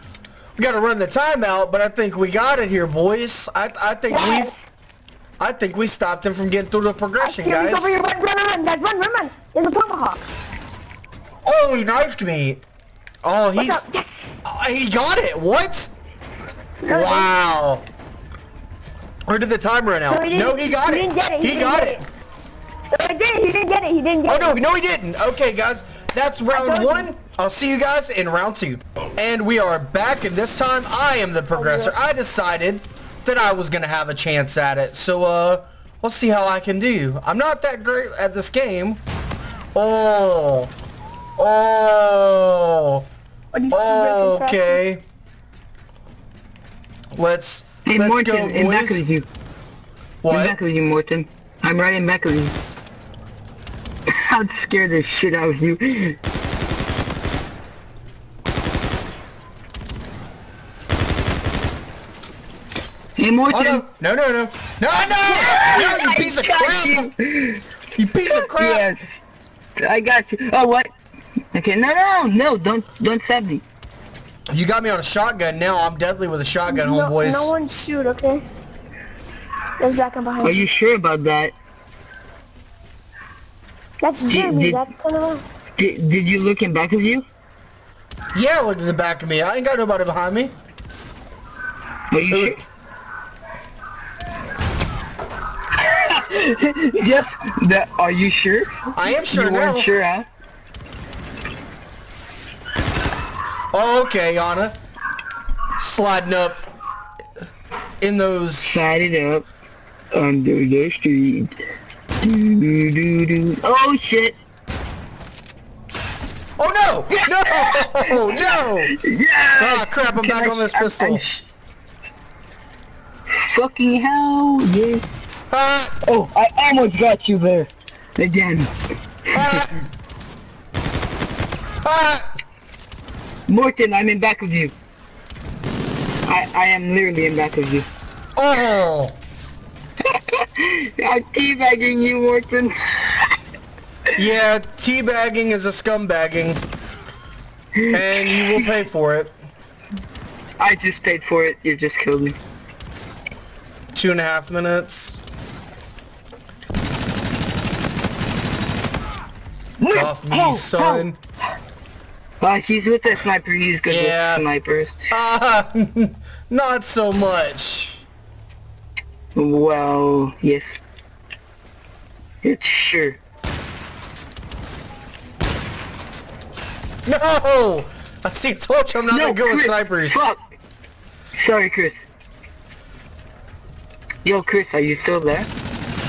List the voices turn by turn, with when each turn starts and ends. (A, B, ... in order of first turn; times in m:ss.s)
0:00.6-0:04.5 A
0:04.1-0:04.7 B
0:05.4-0:08.0 A
0:07.2-0:10.3 B
0:11.4-0:12.6 A
0:13.2-0:13.8 A
0:13.5-0:14.4 B
0:14.4-0:15.9 A
0:16.8-0:17.3 B
0:16.9-0:17.9 A
0:19.3-0:22.0 A
0:20.1-0:22.0 B
0:22.9-0:24.5 B
0:24.3-0:39.0 A
0:26.5-0:27.1 B
0:31.5-0:31.9 B
0:39.7-0:40.7 A
0:41.4-0:43.1 A
0:43.5-0:44.8 B
0:43.7-0:45.0 A
0:47.1-0:49.0 A
0:47.8-0:49.2 C
0:50.2-0:50.6 A
0:50.3-0:52.5 C
0:54.1-0:56.2 C
1:03.2-1:03.8 C
1:03.5-1:07.1 A
1:05.2-1:07.6 C
1:07.9-1:08.9 A
1:08.3-1:09.0 C
1:09.8-1:10.9 C
1:11.5-1:13.6 C
1:14.5-1:17.5 A
1:16.7-1:18.4 B
1:19.8-1:20.6 B
1:20.4-1:21.5 C
1:24.0-1:25.4 B
1:24.2-1:24.8 C
1:25.8-1:27.2 C
1:28.3-1:30.5 A
1:32.1-1:32.6 C
1:32.3-1:32.6 A
1:35.8-1:40.3 C
1:38.9-1:39.9 A
1:43.7-1:44.8 A
1:45.8-1:46.6 A
1:48.0-1:48.8 A
1:48.6-1:49.5 C
1:50.1-1:51.5 C
1:52.2-1:54.4 C
1:56.6-1:58.9 A
1:57.1-2:01.4 C
1:59.5-2:01.2 A
2:03.3-2:05.2 C
2:05.5-2:05.9 A
2:06.1-2:08.7 C
2:09.3-2:09.8 A
2:09.3-2:09.6 C
2:11.8-2:12.3 A
2:13.5-2:14.7 C
2:16.2-2:17.9 C
2:18.4-2:19.2 A
2:20.1-2:23.2 C
2:24.1-2:26.6 A
2:27.7-2:28.7 C
2:27.9-2:29.3 A
2:30.6-2:32.4 C
2:33.9-2:35.2 A
2:39.8-2:41.1 C
2:39.9-2:41.2 A
2:42.4-2:45.0 C
2:43.9-2:44.4 A
2:45.1-2:48.0 A
2:49.4-2:50.8 C
2:52.4-2:53.2 C
2:57.0-3:00.3 A
2:59.1-3:00.4 C
3:01.3-3:02.0 C
3:04.2-3:05.5 C